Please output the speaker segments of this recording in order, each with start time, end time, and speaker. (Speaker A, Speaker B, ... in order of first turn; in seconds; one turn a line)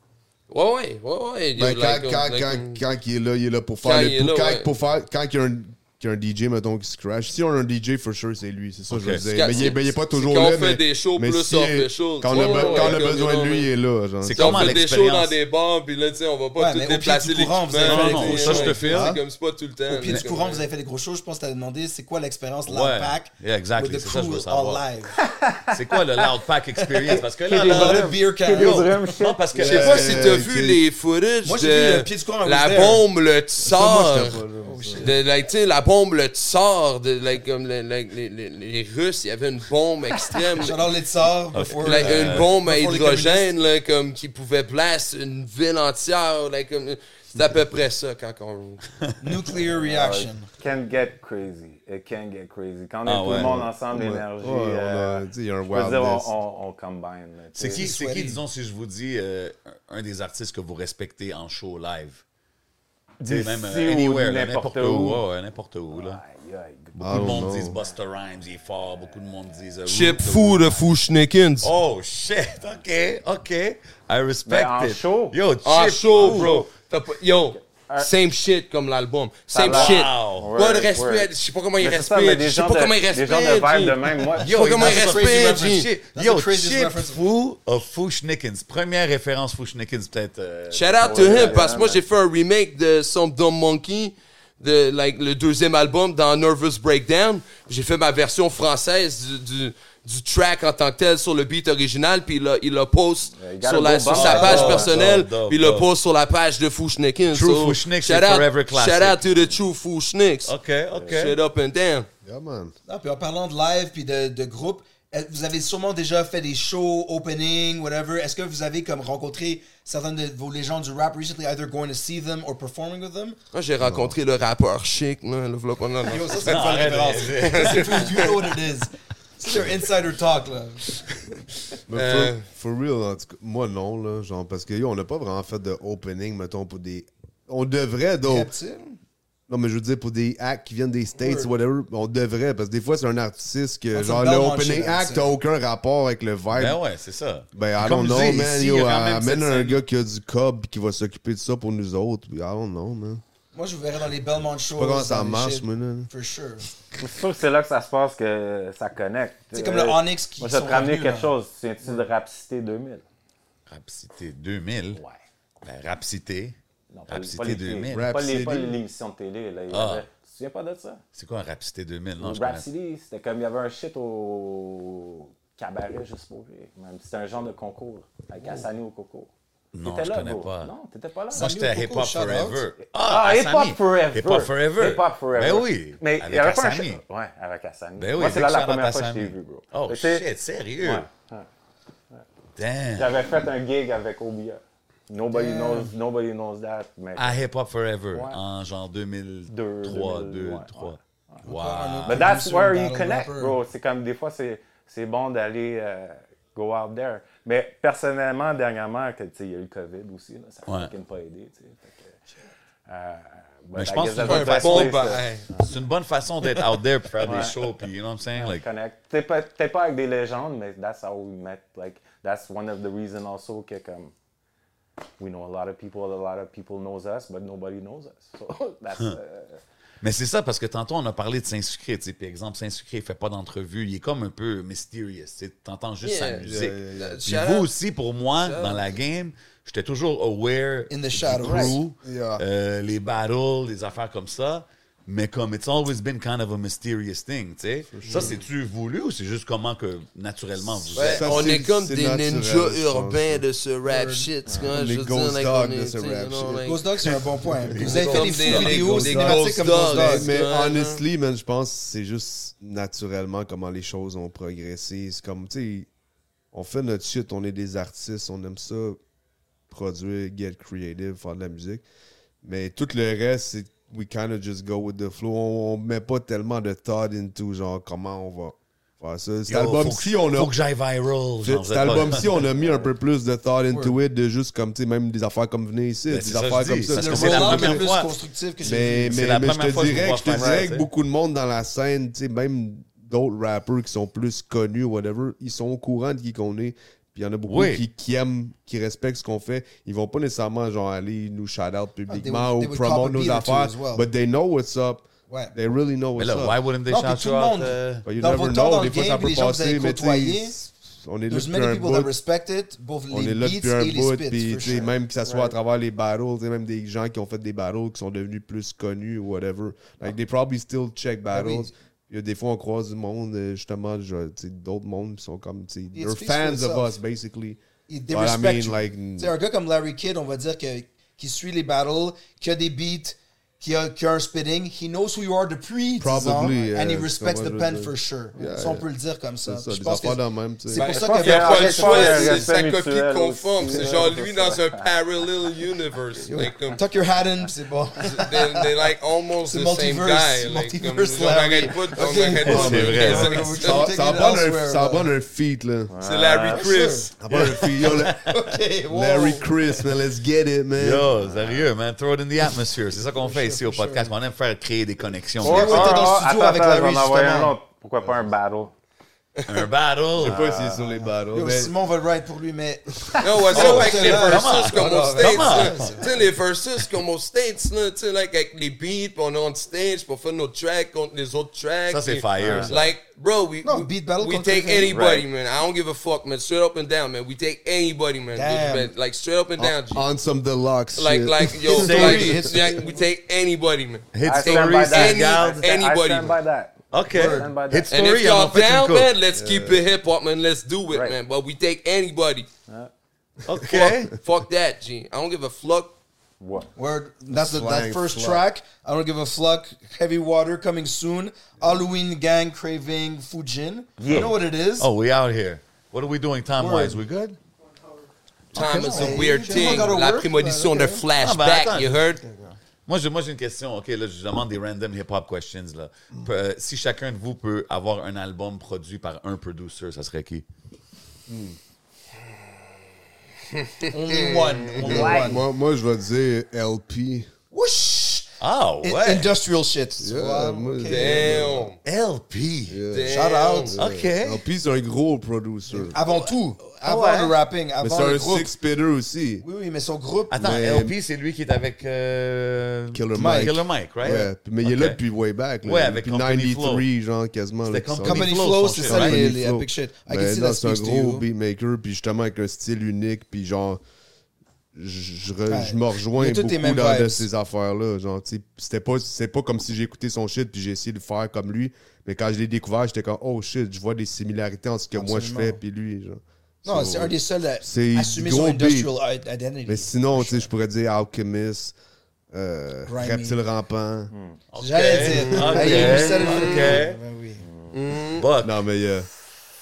Speaker A: 0.5-2.8
Speaker B: 1.6-14.8
Speaker A: 3.8-4.7
Speaker C: 8.9-9.7
Speaker A: 9.3-13.7
Speaker C: 12.3-13.0
Speaker C: 14.2-15.4
Speaker A: 14.4-20.7
Speaker D: 16.6-19.2
Speaker C: 17.8-19.2
Speaker D: 19.9-25.3
Speaker C: 22.7-24.9
Speaker E: 25.4-25.8
Speaker C: 25.7-30.4
Speaker D: 26.9-29.0
Speaker E: 27.1-29.9
Speaker B: 29.6-30.8
Speaker A: 29.6-34.4
Speaker D: 31.4-33.1
Speaker B: 33.6-35.1
Speaker D: 34.6-35.2
Speaker A: 35.0-40.8
Speaker D: 40.6-43.5
Speaker C: 41.5-42.5
Speaker A: 41.8-48.8
Speaker D: 49.2-50.5
Speaker E: 49.8-57.9
Speaker C: 53.0-53.6
Speaker B: 53.3-56.3
Speaker C: 57.6-62.2
Speaker D: 57.8-58.4
Speaker E: 63.2-65.2
Speaker C: 63.2-66.2
Speaker E: 65.9-67.4
Speaker C: 67.0-70.8
Speaker B: 67.0-67.8
Speaker A: 69.9-71.7
Speaker C: 71.6-76.5
Speaker E: 74.5-75.4
Speaker A: 75.6-85.9
Speaker E: 76.3-76.6
Speaker E: 77.5-78.1
Speaker E: 79.5-84.5
Speaker C: 79.7-80.5
Speaker D: 84.4-87.2
Speaker C: 84.4-91.8
Speaker A: 90.7-110.5
Speaker E: 91.0-92.0
Speaker E: 103.4-105.0
Speaker C: 104.1-105.9
Speaker D: 104.2-104.9
Speaker C: 107.3-109.2
Speaker C: 110.5-111.4
Speaker A: 111.1-112.1
Speaker B: 112.2-112.8
Speaker D: 112.9-123.4
Speaker A: 123.5-128.5
Speaker B: 123.8-124.2
Speaker D: 126.0-131.0
Speaker C: 126.4-128.2
Speaker B: 131.9-138.5
Speaker A: 131.9-132.4
Speaker D: 138.2-139.0
Speaker B: 139.5-146.8
Speaker D: 143.9-145.3
Speaker C: 146.5-149.8
Speaker B: 147.5-153.2
Speaker D: 153.5-156.7
Speaker B: 154.8-156.1
Speaker E: 157.0-163.0
Speaker D: 159.5-161.3
Speaker C: 163.7-165.0
Speaker C: 165.6-166.6
Speaker E: 166.9-171.0
Speaker C: 167.1-168.1
Speaker B: 167.9-168.8
Speaker C: 169.7-170.1
Speaker C: 171.2-172.7
Speaker E: 172.2-179.3
Speaker C: 179.7-180.7
Speaker E: 179.8-181.5
Speaker D: 181.3-182.6
Speaker C: 181.3-187.0
Speaker E: 182.9-190.2
Speaker C: 188.0-191.1
Speaker E: 190.8-191.5
Speaker C: 192.6-193.2
Speaker E: 193.0-197.4
Speaker D: 195.3-195.9
Speaker C: 197.2-202.3
Speaker E: 198.1-198.4
Speaker E: 199.5-201.0
Speaker D: 201.4-203.6
Speaker E: 202.1-212.2
Speaker C: 210.7-210.9
Speaker E: 212.9-215.7
Speaker C: 213.8-218.7
Speaker A: 214.2-215.5
Speaker E: 217.2-217.6
Speaker E: 218.3-224.1
Speaker E: 225.2-229.6
Speaker C: 230.0-251.3
Speaker A: 236.0-237.7
Speaker B: 236.4-237.2
Speaker A: 238.3-238.9
Speaker D: 240.9-241.8
Speaker E: 241.4-241.7
Speaker B: 242.0-242.4
Speaker B: 247.9-248.4
Speaker B: 251.0-253.4
Speaker A: 251.0-257.2
Speaker D: 253.9-254.3
Speaker B: 254.7-256.7
Speaker D: 256.6-260.4
Speaker C: 257.7-258.6
Speaker A: 257.8-261.0
Speaker B: 258.4-265.9
Speaker B: 266.5-269.0
Speaker B: 269.7-271.8
Speaker B: 272.4-280.5
Speaker C: 279.5-282.4
Speaker B: 281.4-287.9
Speaker E: 282.6-282.9
Speaker D: 283.7-284.0
Speaker C: 286.1-288.1
Speaker D: 286.9-289.2
Speaker B: 288.6-306.6
Speaker C: 289.1-290.9
Speaker E: 290.3-290.6
Speaker C: 297.5-297.8
Speaker D: 302.1-304.1
Speaker C: 306.2-308.1
Speaker D: 306.9-310.6
Speaker B: 308.1-312.1
Speaker D: 311.3-314.9
Speaker B: 313.1-327.6
Speaker E: 315.3-315.5
Speaker D: 321.3-321.7
Speaker D: 325.9-326.9
Speaker D: 327.9-342.5
Speaker B: 328.1-329.3
Speaker B: 336.0-338.9
Speaker B: 339.4-340.9
Speaker E: 340.7-344.8
Speaker A: 340.8-346.8
Speaker D: 346.3-348.7
Speaker A: 348.1-353.9
Speaker D: 349.4-355.1
Speaker C: 352.4-353.5
Speaker B: 352.5-355.9
Speaker E: 355.9-356.7
Speaker A: 356.0-357.1
Speaker D: 356.5-359.5
Speaker B: 357.2-358.3
Speaker C: 357.3-358.4
Speaker B: 358.9-361.1
Speaker C: 360.8-366.1
Speaker E: 361.2-361.7
Speaker D: 363.2-364.1
Speaker D: 365.4-367.6
Speaker E: 365.4-368.7
Speaker C: 369.5-370.4
Speaker B: 370.2-371.7
Speaker E: 370.2-370.8
Speaker D: 370.9-376.1
Speaker A: 373.2-390.1
Speaker C: 373.5-376.0
Speaker C: 381.9-382.9
Speaker E: 382.4-382.7
Speaker D: 383.6-385.0
Speaker E: 384.9-385.3
Speaker D: 388.3-388.9
Speaker B: 389.6-392.5
Speaker A: 391.0-396.4
Speaker D: 391.7-393.0
Speaker C: 391.8-392.5
Speaker C: 394.1-395.6
Speaker E: 394.2-397.9
Speaker C: 396.9-399.1
Speaker D: 397.1-397.5
Speaker A: 397.9-402.5
Speaker B: 399.3-399.8
Speaker E: 400.9-401.2
Speaker C: 403.5-404.1
Speaker A: 403.7-406.0
Speaker E: 406.4-406.7
Speaker D: 406.8-414.9
Speaker B: 407.3-408.4
Speaker E: 414.0-414.3
Speaker C: 414.1-417.4
Speaker D: 416.6-417.0
Speaker A: 418.5-422.2
Speaker D: 418.6-421.1
Speaker C: 418.6-419.8
Speaker C: 421.2-422.0
Speaker D: 422.2-422.6
Speaker C: 422.9-430.4
Speaker B: 431.3-431.6
Speaker A: 433.6-434.9
Speaker D: 433.9-435.4
Speaker C: 434.8-435.4
Speaker B: 434.8-437.3
Speaker E: 434.9-435.3
Speaker D: 437.5-438.3
Speaker C: 438.4-439.3
Speaker D: 438.8-441.5
Speaker B: 440.0-441.7
Speaker A: 440.9-441.8
Speaker C: 441.8-442.8
Speaker B: 442.7-446.0
Speaker A: 442.9-443.7
Speaker D: 443.1-443.8
Speaker C: 443.8-444.4
Speaker D: 445.7-448.5
Speaker C: 446.0-447.4
Speaker B: 447.8-449.4
Speaker D: 449.4-450.4
Speaker C: 450.3-455.0
Speaker B: 450.4-450.9
Speaker B: 452.9-463.8
Speaker D: 453.2-453.5
Speaker C: 455.6-456.9
Speaker C: 457.7-459.3
Speaker D: 458.0-461.2
Speaker B: 464.8-478.9
Speaker D: 465.5-467.3
Speaker D: 474.9-475.6
Speaker D: 476.6-480.5
Speaker B: 479.7-481.8
Speaker B: 482.3-484.1
Speaker D: 482.9-483.4
Speaker E: 484.1-484.4
Speaker C: 484.5-487.0
Speaker D: 484.6-487.4
Speaker B: 485.1-486.1
Speaker A: 485.6-486.8
Speaker E: 487.4-487.8
Speaker A: 487.7-488.3
Speaker C: 488.2-488.6
Speaker B: 488.4-489.1